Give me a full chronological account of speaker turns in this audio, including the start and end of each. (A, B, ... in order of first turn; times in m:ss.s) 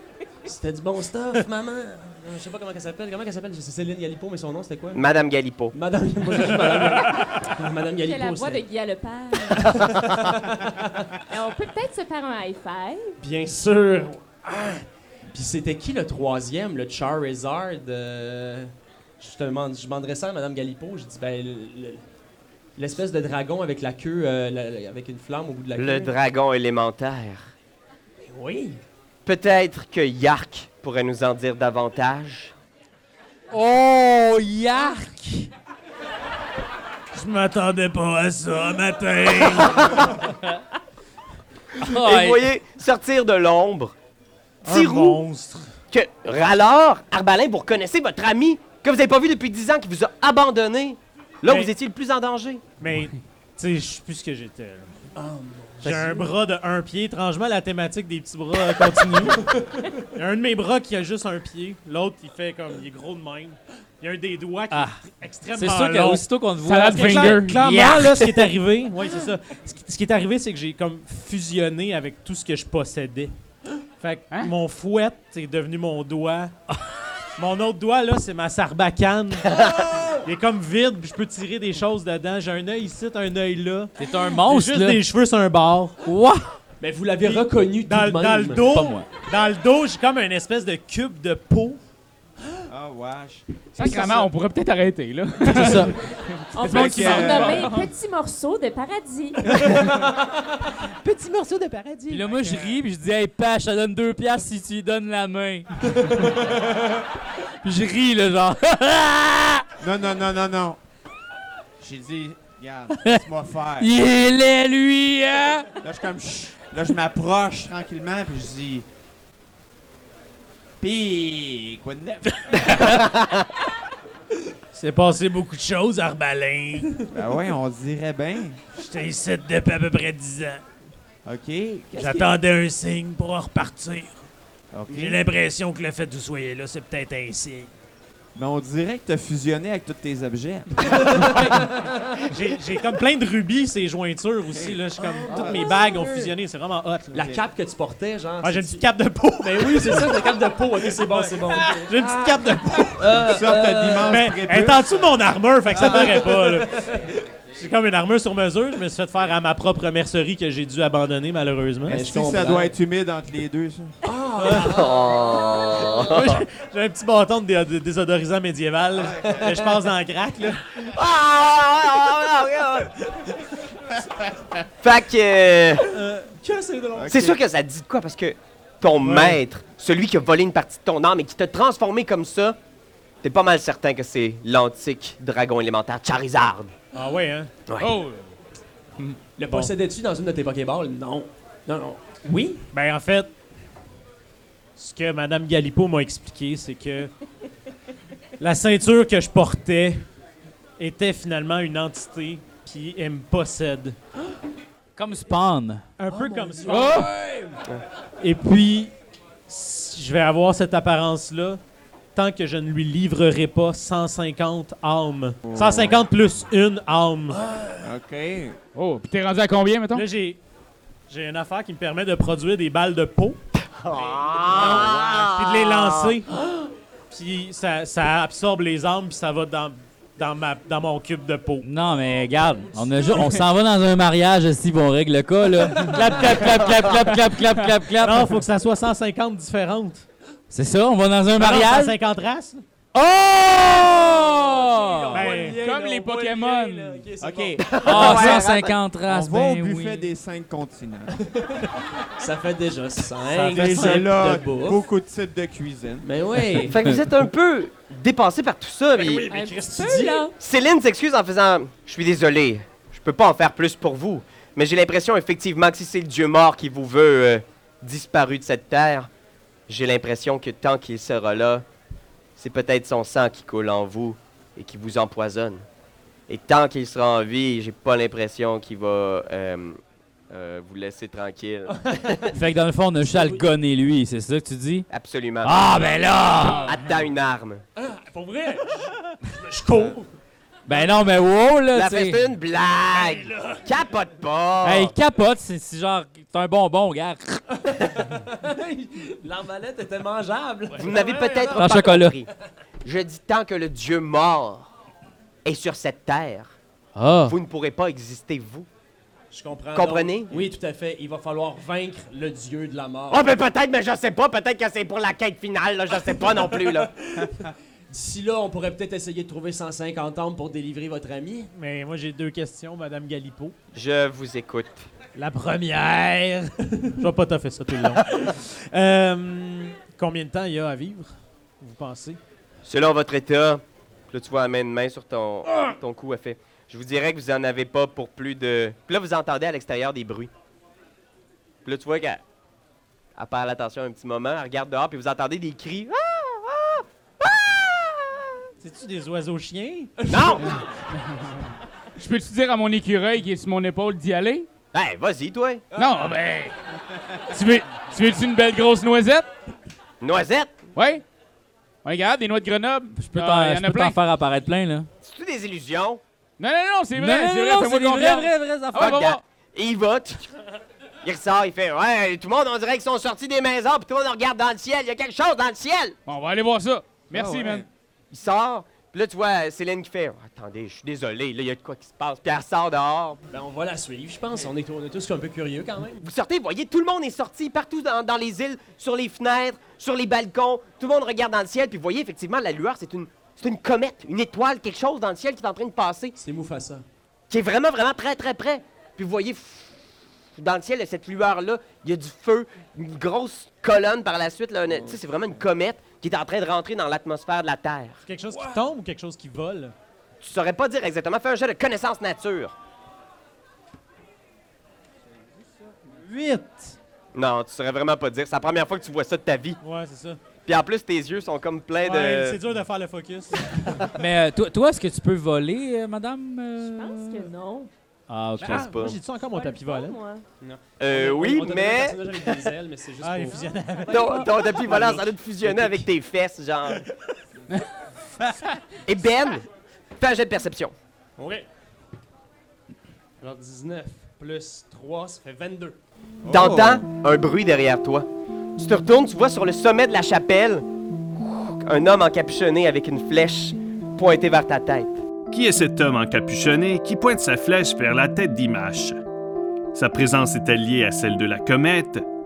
0:00.4-0:05.0 A
0:04.9-0:05.7 B
0:05.7-0:08.6 A
0:08.0-0:09.8 C
0:09.6-0:09.9 B
0:10.1-0:11.1 A
0:11.3-0:13.2 C
0:13.2-0:22.0 A
0:22.8-0:26.1 A
0:25.8-0:27.5 B
0:28.2-0:28.8 A
0:29.2-0:32.5 B
0:33.5-0:35.5 D
0:37.1-0:40.0 E
0:39.6-0:40.1 B
0:41.8-0:42.4 D
0:41.8-0:43.9 B
0:44.6-0:45.6 E
0:44.6-0:45.2 B
0:45.9-0:52.6 B
0:51.4-0:51.7 E
0:52.8-0:55.0 E
0:55.1-0:56.3 A
0:55.8-0:59.4 E
0:58.7-1:00.0 A
1:00.1-1:06.3 E
1:04.7-1:05.0 D
1:05.5-1:08.5 D
1:06.6-1:07.6 F
1:06.9-1:13.3 E
1:14.0-1:16.5 E
1:17.4-1:19.6 E
1:19.6-1:19.8 B
1:20.2-1:26.0 E
1:24.0-1:25.0 D
1:26.0-1:26.5 D
1:26.8-1:28.7 A
1:27.2-1:31.8 E
1:28.7-1:29.1 D
1:32.7-1:34.3 G
1:33.7-1:37.9 F
1:35.5-1:36.0 D
1:36.5-1:39.6 C
1:36.6-1:37.7 G
1:39.5-1:40.3 A
1:41.0-1:42.2 A
1:41.0-1:42.4 E
1:42.1-1:45.9 D
1:47.6-1:49.6 D
1:49.8-1:50.8 G
1:51.8-1:53.9 G
1:53.8-1:55.7 D
1:55.8-1:58.9 G
2:00.8-2:03.0 G
2:02.6-2:03.5 B
2:04.7-2:06.9 E
2:07.1-2:08.6 G
2:08.7-2:10.6 E
2:11.2-2:12.3 G
2:11.9-2:14.2 E
2:14.7-2:15.2 G
2:14.9-2:17.7 E
2:18.4-2:21.4 G
2:20.8-2:22.4 A
2:22.3-2:27.3 E
2:24.5-2:25.7 G
2:25.2-2:26.3 A
2:27.1-2:28.9 A
2:28.4-2:30.2 E
2:29.4-2:34.2 A
2:31.7-2:33.0 E
2:32.2-2:34.9 G
2:34.1-2:36.7 E
2:35.7-2:37.2 A
2:37.5-2:42.0 E
2:41.9-2:42.7 A
2:41.9-2:43.9 G
2:44.0-2:46.1 A
2:44.4-2:46.4 B
2:46.0-2:50.6 E
2:49.2-2:49.8 A
2:50.7-2:53.1 B
2:54.8-2:55.9 B
2:55.9-2:57.4 A
2:57.0-2:57.3 G
2:57.1-3:02.6 B
2:59.0-2:59.4 E
3:03.2-3:06.7 B
3:06.9-3:07.5 E
3:07.7-3:07.9 B
3:07.8-3:08.3 F
3:09.4-3:12.7 A
3:12.7-3:13.3 E
3:14.8-3:17.1 E
3:18.4-3:20.0 E
3:20.8-3:24.0 E
3:25.0-3:25.8 D
3:26.0-3:27.1 E
3:26.1-3:27.6 A
3:26.7-3:27.0 D
3:28.2-3:28.9 E
3:29.5-3:31.6 E
3:32.1-3:37.4 E
3:35.4-3:36.1 G
3:37.8-3:38.6 G
3:38.7-3:40.1 F
3:39.9-3:40.4 E
3:41.1-3:43.4 E
3:43.6-3:46.1 B
3:43.9-3:46.3 E
3:44.5-3:44.9 G
3:47.1-3:51.6 E
3:51.6-3:58.4 D
3:58.0-4:00.1 E
4:00.5-4:02.0 D
4:01.4-4:02.6 E
4:02.9-4:05.2 D
4:03.6-4:08.4 A
4:05.1-4:05.6 E
4:05.3-4:07.1 F
4:07.2-4:08.0 G
4:07.6-4:08.8 B
4:07.8-4:10.1 D
4:09.1-4:11.1 G
4:11.2-4:14.8 A
4:13.3-4:14.0 E
4:13.5-4:16.1 G
4:16.0-4:16.9 A
4:16.7-4:19.2 B
4:19.0-4:20.3 A
4:19.3-4:20.3 C
4:20.4-4:29.1 B
4:29.7-4:31.6 B
4:32.4-4:35.6 B
4:36.3-4:39.8 B
4:40.3-4:42.3 B
4:41.8-4:42.4 A
4:42.3-4:44.9 D
4:43.0-4:43.5 A
4:44.9-4:45.6 B
4:45.4-4:46.8 D
4:46.6-4:47.6 B
4:47.8-4:50.1 A
4:50.6-4:52.2 D
4:51.7-4:54.9 B
4:53.1-4:53.6 A
4:54.6-4:57.4 D
4:57.7-5:01.6 A
5:00.8-5:02.3 B
5:01.5-5:02.2 D
5:02.8-5:04.7 B
5:05.4-5:06.5 B
5:07.0-5:07.4 D
5:07.2-5:08.7 B
5:09.3-5:13.3 A
5:09.7-5:10.5 B
5:13.1-5:16.9 B
5:16.1-5:21.5 A
5:21.5-5:23.5 E
5:23.7-5:24.9 B
5:25.1-5:32.2 E
5:32.6-5:40.3 B
5:41.6-5:42.2 B
5:43.2-5:48.4 B
5:48.6-5:49.9 E
5:50.0-5:50.6 A
5:50.1-5:50.6 B
5:52.0-5:54.5 F
5:54.7-5:55.7 B
5:55.7-5:56.1 A
5:55.7-5:56.5 F
5:57.3-5:59.3 F
6:00.0-6:00.5 B
6:00.8-6:01.0 F
6:01.8-6:04.0 F
6:03.0-6:04.9 D
6:05.0-6:06.0 B
6:06.4-6:09.2 F
6:07.0-6:09.0 D
6:08.8-6:10.3 B
6:11.0-6:16.0 B
6:16.1-6:17.6 F
6:17.1-6:17.7 G
6:18.1-6:23.2 B
6:23.3-6:26.1 A
6:26.0-6:36.2 B
6:36.2-6:36.8 A
6:37.3-6:39.7 B
6:40.4-6:48.0 B
6:48.0-6:49.7 E
6:50.2-6:52.5 B
6:55.9-6:56.7 E
6:57.1-6:59.6 B
6:59.6-7:00.2 E
7:00.4-7:02.4 B
7:01.8-7:03.8 E
7:04.0-7:07.3 D
7:06.6-7:07.7 C
7:08.1-7:08.7 D
7:08.4-7:09.0 B
7:08.4-7:10.0 E
7:09.3-7:10.2 C
7:10.4-7:13.6 A
7:10.8-7:12.4 B
7:13.0-7:14.9 E
7:13.9-7:14.4 C
7:13.9-7:16.8 B
7:14.5-7:15.8 A
7:18.8-7:19.4 B
7:20.0-7:20.7 B
7:21.2-7:21.5 A
7:23.2-7:25.8 A
7:26.2-7:26.8 G
7:26.3-7:30.6 B
7:31.2-7:35.0 B
7:35.3-7:39.0 H
7:39.7-7:42.0 H